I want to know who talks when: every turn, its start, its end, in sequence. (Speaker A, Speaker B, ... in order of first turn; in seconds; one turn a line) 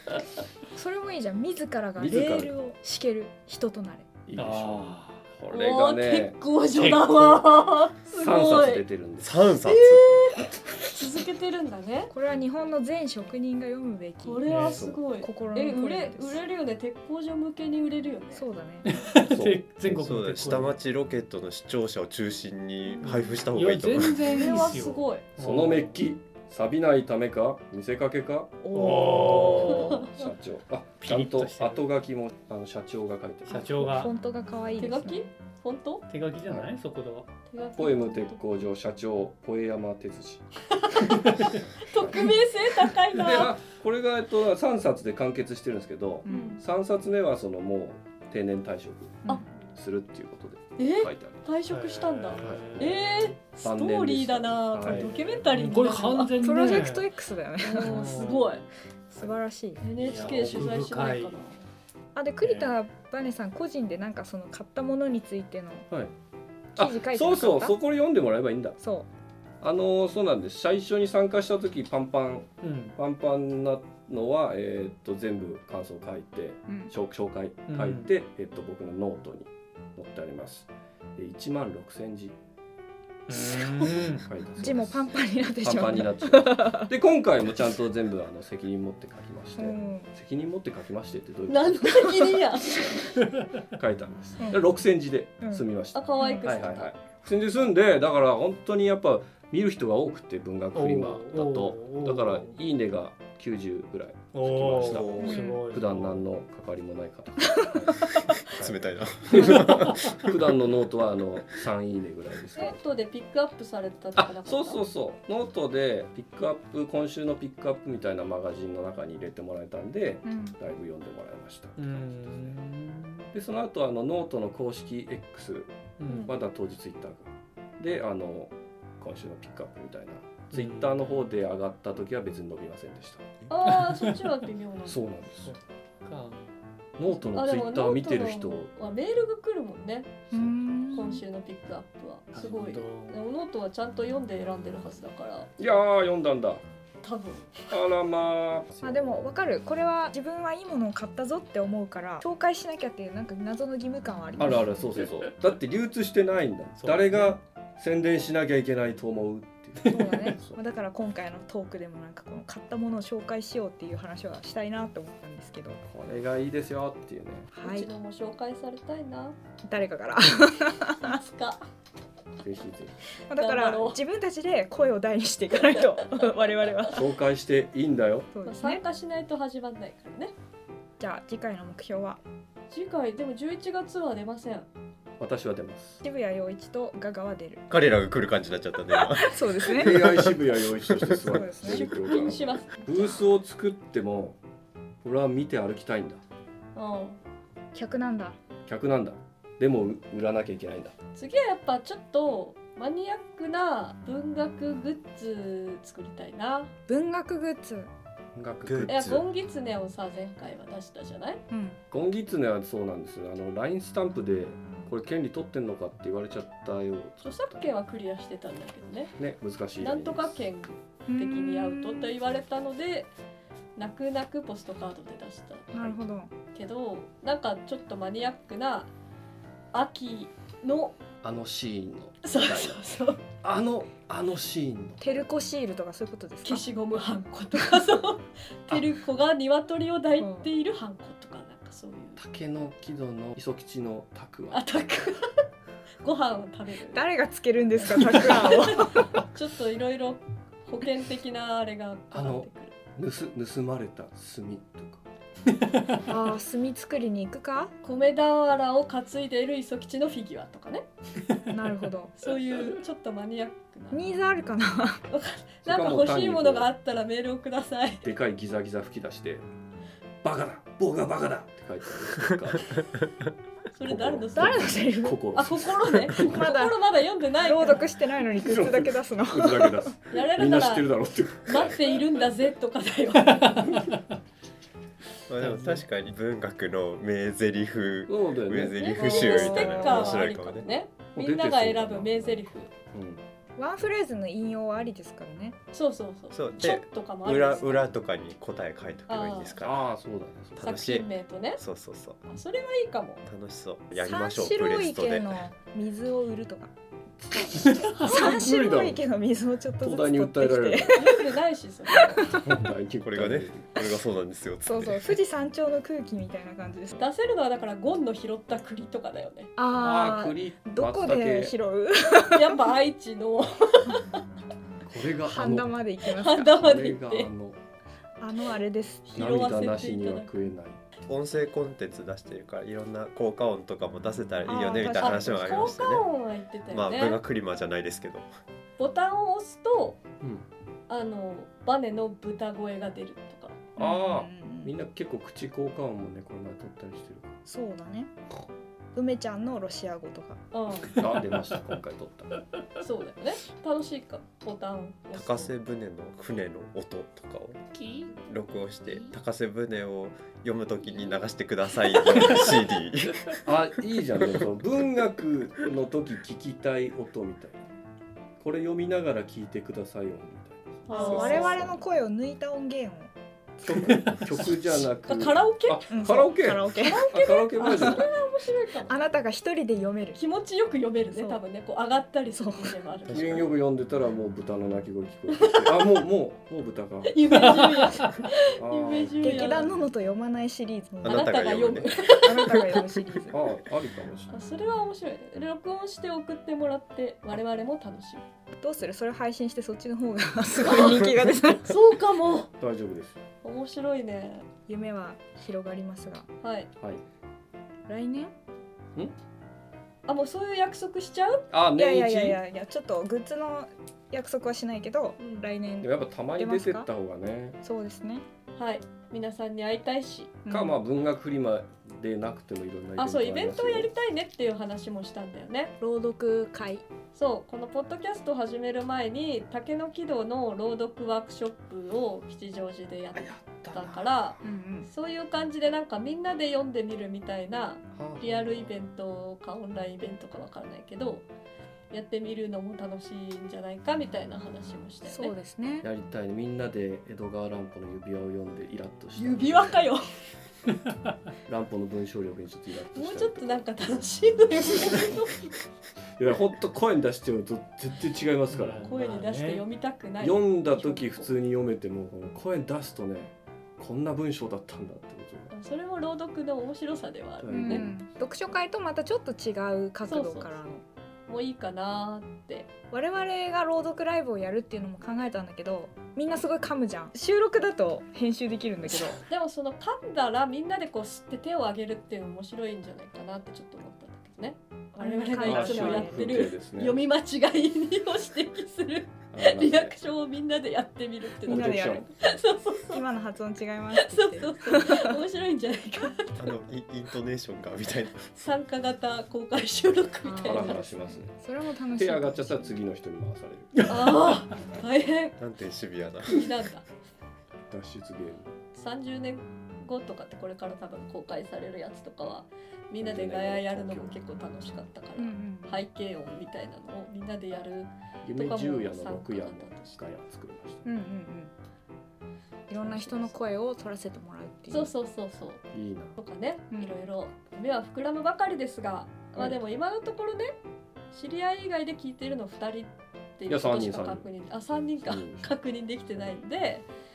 Speaker A: 0.7-4.1
Speaker B: 2.0-2.5
Speaker B: 4.2-7.4
Speaker C: 4.4-5.2
Speaker D: 5.5-8.8
Speaker B: 8.1-9.4
Speaker E: 9.2-10.4
Speaker D: 9.6-12.1
Speaker A: 12.1-14.5
Speaker D: 14.2-18.4
Speaker C: 14.4-14.8
Speaker B: 14.6-15.0
Speaker A: 15.2-16.4
Speaker A: 18.3-18.9
Speaker C: 18.9-20.8
Speaker B: 19.3-20.1
Speaker E: 19.9-24.3
Speaker C: 23.1-26.0
Speaker D: 24.2-25.2
Speaker B: 25.4-33.6
Speaker A: 28.6-30.0
Speaker C: 28.7-30.1
Speaker D: 29.9-30.3
Speaker C: 31.0-31.9
Speaker C: 33.5-34.1
Speaker A: 33.5-35.3
Speaker D: 34.8-36.1
Speaker C: 36.1-37.3
Speaker D: 37.5-38.4
Speaker B: 37.8-40.5
Speaker D: 40.7-41.2
Speaker C: 41.2-41.6
Speaker D: 41.8-43.5
Speaker B: 42.0-42.3
Speaker B: 43.1-51.4
Speaker A: 46.2-46.6
Speaker D: 46.3-46.6
Speaker D: 50.8-56.4
Speaker C: 51.7-53.0
Speaker B: 52.4-55.2
Speaker C: 54.8-57.1
Speaker A: 56.4-58.1
Speaker D: 57.6-58.6
Speaker C: 57.8-58.6
Speaker A: 59.1-59.8
Speaker D: 59.8-61.6
Speaker C: 60.0-61.4
Speaker B: 60.0-60.7
Speaker A: 62.1-65.9
Speaker C: 62.4-62.7
Speaker A: 66.8-67.8
Speaker B: 66.8-68.8
Speaker A: 68.8-69.1
Speaker B: 69.6-82.3
Speaker C: 72.6-73.0
Speaker C: 77.7-78.1
Speaker C: 83.3-84.3
Speaker B: 83.3-92.4
Speaker A: 84.6-86.9
Speaker A: 89.6-90.1
Speaker D: 91.5-93.1
Speaker B: 93.7-112.7
Speaker A: 94.4-94.7
Speaker A: 95.4-95.6
Speaker D: 95.9-96.9
Speaker A: 96.2-96.5
Speaker C: 100.7-102.5
Speaker C: 104.3-106.2
Speaker E: 104.8-105.4
Speaker A: 105.2-105.6
Speaker E: 108.4-110.3
Speaker D: 112.6-114.8
Speaker B: 114.2-122.5
Speaker A: 120.2-120.6
Speaker C: 121.8-123.3
Speaker B: 123.3-133.4
Speaker C: 126.0-126.3
Speaker D: 126.1-126.3
Speaker C: 130.5-131.2
Speaker D: 133.5-135.0
Speaker B: 134.9-135.5
Speaker C: 135.4-136.6
Speaker B: 137.0-138.7
Speaker D: 137.3-140.2
Speaker A: 140.3-141.2
Speaker D: 140.9-145.5
Speaker C: 142.3-143.2
Speaker B: 145.6-146.6
Speaker D: 147.0-147.7
Speaker B: 147.7-149.2
Speaker A: 148.8-154.7
Speaker B: 154.4-160.6
Speaker C: 156.8-157.4
Speaker A: 159.8-165.8
Speaker B: 165.9-167.5
Speaker A: 167.5-167.9
Speaker D: 167.6-169.4
Speaker A: 169.7-171.2
Speaker D: 171.0-171.6
Speaker B: 172.4-173.0
Speaker A: 173.3-177.0
Speaker D: 173.4-174.0
Speaker B: 176.9-178.3
Speaker A: 178.3-178.8
Speaker D: 178.4-180.3
Speaker A: 181.0-182.2
Speaker D: 182.7-184.7
Speaker B: 185.2-186.0
Speaker A: 186.0-187.6
Speaker E: 187.7-191.2
Speaker A: 188.9-190.0
Speaker B: 189.6-194.4
Speaker A: 191.2-191.9
Speaker D: 191.7-193.2
Speaker B: 195.0-196.2
Speaker D: 196.7-197.2
Speaker A: 197.7-198.4
Speaker B: 198.7-200.9
Speaker D: 201.1-206.7
Speaker A: 206.9-207.9
Speaker B: 208.3-209.2
Speaker E: 208.6-209.2
Speaker D: 208.9-211.4
Speaker A: 211.5-211.8
Speaker B: 211.9-217.7
Speaker D: 217.2-219.1
Speaker B: 219.2-220.4
Speaker D: 219.8-223.1
Speaker A: 221.1-222.2
Speaker D: 223.8-225.8
Speaker A: 225.7-226.3
Speaker D: 226.5-228.9
Speaker D: 229.7-231.0
Speaker B: 231.2-235.2
Speaker D: 232.2-233.2
Speaker A: 235.0-236.6
Speaker D: 236.4-242.2
Speaker A: 240.2-240.5
Speaker B: 242.2-244.7
Speaker D: 244.5-245.4
Speaker D: 246.0-247.0
Speaker A: 246.9-249.1
Speaker D: 248.0-252.7
Speaker B: 252.1-255.0
Speaker C: 255.5-256.0
Speaker A: 256.1-257.7
Speaker D: 257.8-260.9
Speaker A: 261.5-262.1
Speaker D: 262.2-264.1
Speaker A: 263.9-265.1
Speaker D: 265.1-268.1
Speaker B: 265.6-266.7
Speaker B: 268.0-269.4
Speaker B: 270.2-272.7
Speaker D: 273.7-277.9
Speaker B: 273.9-276.3
Speaker A: 274.4-275.2
Speaker A: 276.1-276.8
Speaker A: 277.4-279.9
Speaker B: 278.4-282.0
Speaker D: 280.1-280.9
Speaker D: 281.4-283.8
Speaker E: 285.3-290.7
Speaker B: 288.1-289.0
Speaker A: 288.8-290.2
Speaker D: 289.0-292.6
Speaker B: 291.1-293.2
Speaker A: 293.6-295.6
Speaker D: 295.7-297.8
Speaker E: 296.3-299.9
Speaker D: 299.1-299.6
Speaker B: 299.6-300.7
Speaker E: 300.6-302.2
Speaker D: 300.6-301.6
Speaker D: 302.3-303.2
Speaker E: 303.2-305.4
Speaker A: 303.9-306.7
Speaker B: 307.2-309.0
Speaker A: 308.0-311.2
Speaker B: 309.8-311.0
Speaker D: 310.9-312.4
Speaker A: 311.9-312.4
Speaker B: 312.2-313.8
Speaker E: 313.0-315.2
Speaker A: 314.6-317.1
Speaker D: 317.0-319.5
Speaker A: 319.6-322.6
Speaker B: 319.8-321.6
Speaker D: 322.3-324.0
Speaker B: 324.9-325.8
Speaker A: 325.2-326.6
Speaker D: 326.0-327.3
Speaker B: 326.5-327.6
Speaker A: 328.2-329.3
Speaker D: 329.1-330.5
Speaker B: 329.1-330.8
Speaker E: 331.1-336.1
Speaker A: 334.4-335.7
Speaker D: 334.8-337.2
Speaker E: 336.7-338.3
Speaker D: 338.8-340.0
Speaker D: 340.9-343.7
Speaker B: 343.7-347.4
Speaker A: 343.8-344.7
Speaker A: 347.4-348.1
Speaker A: 348.9-350.4
Speaker D: 350.5-351.1
Speaker B: 351.0-352.4
Speaker D: 352.8-355.5
Speaker E: 355.1-363.4
Speaker B: 363.4-367.6
Speaker E: 364.2-364.4
Speaker B: 368.4-371.8
Speaker D: 370.9-371.7
Speaker A: 370.9-373.1
Speaker B: 373.6-378.1
Speaker C: 373.9-374.2
Speaker D: 375.1-375.9
Speaker A: 375.9-377.1
Speaker D: 376.8-379.0
Speaker A: 378.9-380.2
Speaker D: 380.1-383.5
Speaker A: 381.1-381.4
Speaker A: 382.4-382.8
Speaker E: 383.1-383.5
Speaker B: 383.1-387.8
Speaker D: 385.3-385.9
Speaker D: 387.1-389.7
Speaker C: 387.8-388.1
Speaker B: 388.6-389.6
Speaker A: 389.2-391.4
Speaker E: 391.0-392.1
Speaker D: 391.1-393.2
Speaker A: 392.1-393.4
Speaker B: 393.3-394.3
Speaker D: 394.3-398.2
Speaker A: 398.6-401.7
Speaker D: 400.6-402.5
Speaker B: 402.5-403.2
Speaker D: 403.4-404.4
Speaker A: 404.7-406.3
Speaker D: 406.4-406.7
Speaker A: 407.9-408.3
Speaker D: 410.1-411.5
Speaker B: 411.5-412.4
Speaker A: 411.7-416.9
Speaker D: 415.2-415.5
Speaker B: 415.8-417.6
Speaker A: 417.6-418.2
Speaker D: 418.6-420.4
Speaker A: 420.4-420.8
Speaker B: 420.5-423.9
Speaker D: 423.0-425.7
Speaker A: 425.8-426.8
Speaker D: 427.1-441.2
Speaker B: 433.1-434.1
Speaker A: 434.4-434.9
Speaker B: 437.9-438.7
Speaker D: 441.9-445.3
Speaker A: 445.1-445.9
Speaker B: 445.8-449.8
Speaker D: 449.2-450.0
Speaker B: 451.4-453.6
Speaker D: 452.9-455.6
Speaker B: 456.2-458.9
Speaker C: 458.5-459.6
Speaker D: 458.9-461.3
Speaker B: 460.2-465.5
Speaker D: 465.5-467.9
Speaker B: 467.4-467.9
Speaker A: 467.5-470.8
Speaker D: 470.1-470.6
Speaker D: 471.3-472.7
Speaker A: 472.9-479.2
Speaker D: 479.2-493.1
Speaker A: 485.0-486.4
Speaker B: 485.4-487.0
Speaker B: 489.3-489.9
Speaker A: 491.4-492.1
Speaker B: 491.4-492.1
Speaker A: 492.9-495.2
Speaker D: 494.0-496.6
Speaker E: 496.4-498.3
Speaker D: 498.3-500.9
Speaker A: 500.2-502.8
Speaker B: 500.4-501.3
Speaker B: 502.0-504.3
Speaker D: 503.9-505.4
Speaker E: 505.4-506.4
Speaker D: 506.3-506.9
Speaker B: 507.7-508.5
Speaker D: 508.7-520.0
Speaker B: 513.0-514.2
Speaker A: 515.1-515.8
Speaker B: 518.2-520.9
Speaker A: 520.9-521.5
Speaker A: 522.7-524.9
Speaker D: 522.9-523.3
Speaker D: 524.7-525.6
Speaker B: 525.7-526.2
Speaker D: 526.2-530.5
Speaker A: 526.7-527.0
Speaker D: 531.1-536.9
Speaker B: 533.5-534.2
Speaker B: 535.0-535.5